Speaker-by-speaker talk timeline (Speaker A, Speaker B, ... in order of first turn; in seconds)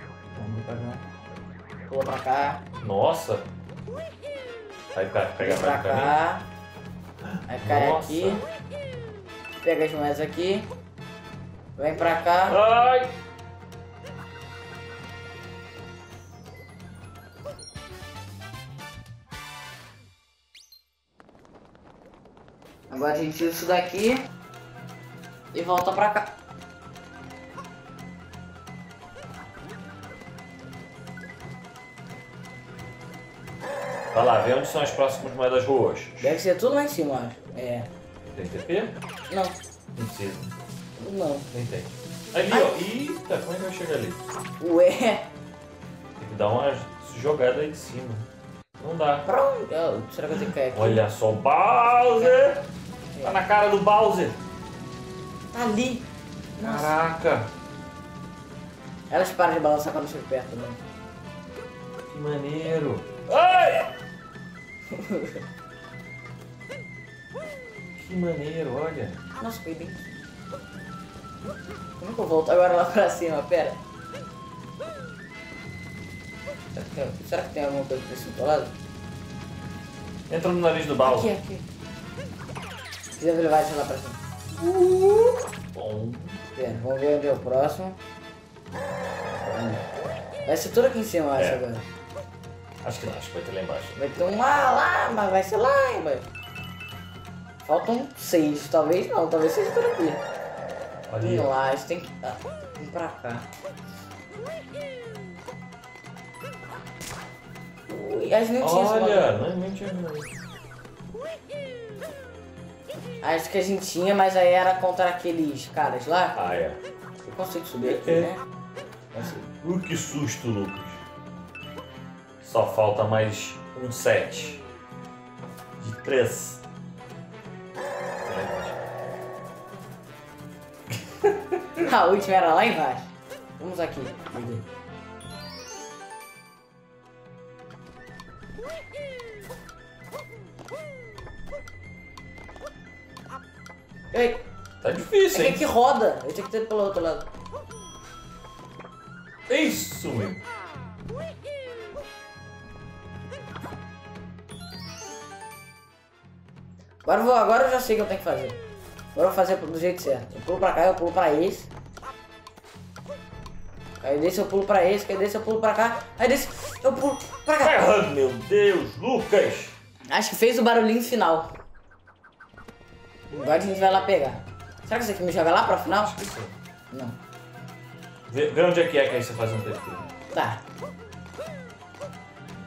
Speaker A: 0.3-1.1, 1.9-2.6, 5.4-6.5, 7.5-8.4, 9.6-10.7, 11.8-12.6, 22.9-24.3, 25.5-26.3, 36.2-37.9, 39.3-39.6, 41.0-41.5, 42.5-42.8, 44.6-45.3, 49.3-51.0, 52.2-52.5, 53.1-53.4, 55.5-56.9, 59.1-60.8, 64.9-65.4, 69.4-70.1, 72.0-73.8, 76.7-78.7, 81.0-81.7, 83.2-84.2, 86.5-88.0, 89.5-89.8, 90.5-91.9, 94.0-96.3, 97.6-100.2, 101.2-103.5, 107.9-109.3, 113.2-116.4, 117.2-118.4, 119.1-119.5, 131.8-134.7, 144.1-144.4, 145.0-147.3, 157.1-158.6, 159.1-161.7, 164.0-167.8, 170.1-171.5, 173.3-176.2, 176.9-177.2, 180.3-180.6
Speaker B: 2.8-3.5, 4.9-6.2, 7.2-8.4, 12.5-13.1, 34.1-36.4, 38.3-39.0, 40.0-40.5, 41.5-44.2, 46.2-49.3, 50.7-52.6, 53.2-54.4, 56.6-57.5, 62.1-63.9, 68.0-69.2, 80.3-81.3, 84.6-86.4, 91.4-91.6, 92.8-94.0, 101.1-101.5, 108.6-110.3, 116.3-116.8, 117.8-118.3, 119.2-121.0, 122.4-124.6, 125.8-126.6, 128.2-128.9, 144.8-145.6, 149.5-150.4, 167.6-169.8, 175.8-176.6, 178.3-180.1